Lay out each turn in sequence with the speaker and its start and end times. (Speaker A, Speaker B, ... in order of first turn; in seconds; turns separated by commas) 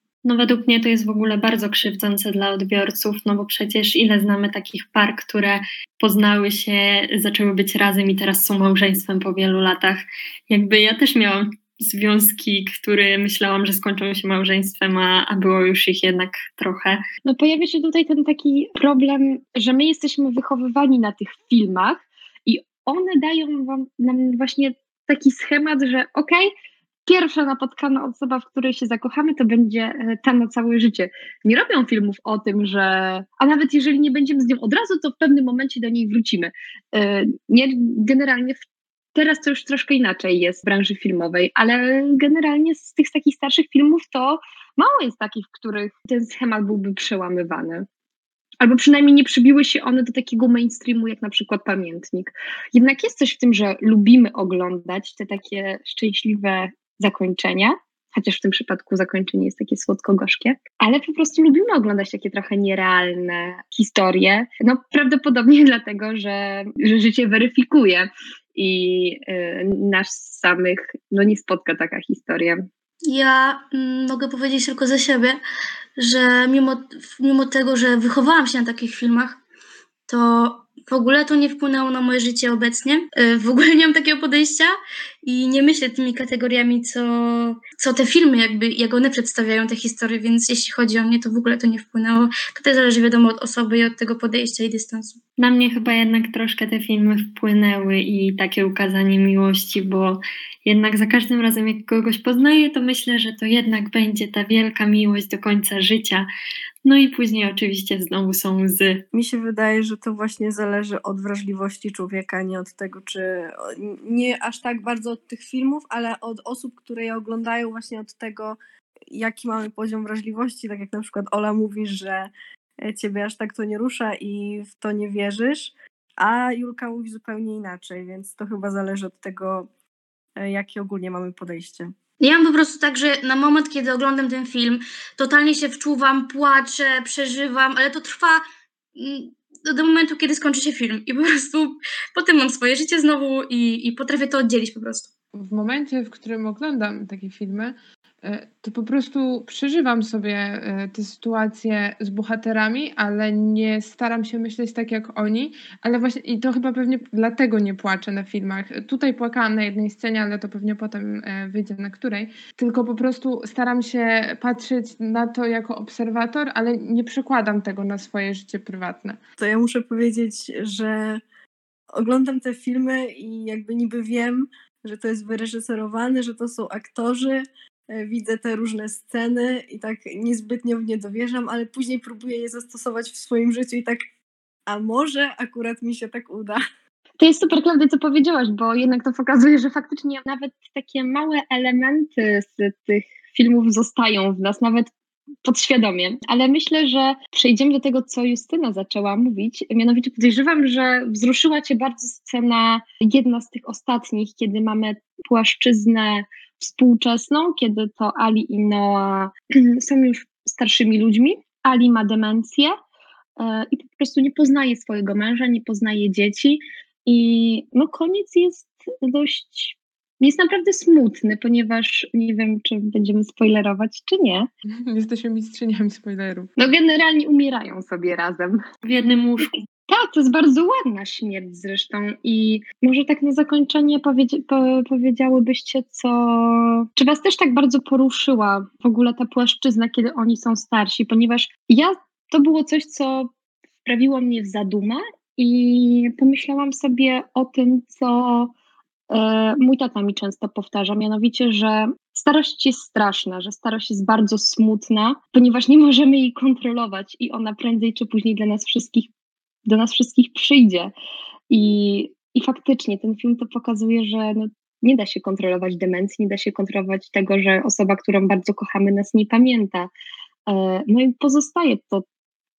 Speaker A: 0.2-17.0, Speaker B: 17.2-26.5, Speaker B: 27.1-38.6, Speaker B: 39.1-47.9, Speaker B: 48.6-72.6, Speaker C: 73.1-75.4, Speaker C: 76.0-79.4, Speaker C: 80.1-84.7, Speaker C: 85.2-95.2, Speaker A: 95.4-106.3, Speaker A: 106.8-109.0, Speaker D: 109.1-118.6, Speaker D: 119.1-122.3, Speaker D: 122.8-129.7, Speaker D: 130.4-131.9, Speaker C: 132.2-138.4, Speaker C: 138.9-145.1, Speaker E: 145.3-169.2, Speaker D: 169.4-171.2, Speaker D: 172.0-184.0, Speaker D: 184.7-186.6, Speaker B: 187.2-194.9, Speaker B: 195.4-212.8, Speaker B: 213.4-224.5, Speaker E: 224.9-226.5, Speaker B: 226.6-228.6, Speaker A: 228.8-229.5, Speaker B: 229.9-243.3, Speaker B: 243.8-248.5, Speaker B: 249.1-259.1, Speaker B: 259.7-260.9, Speaker B: 261.5-269.9, Speaker B: 270.5-272.1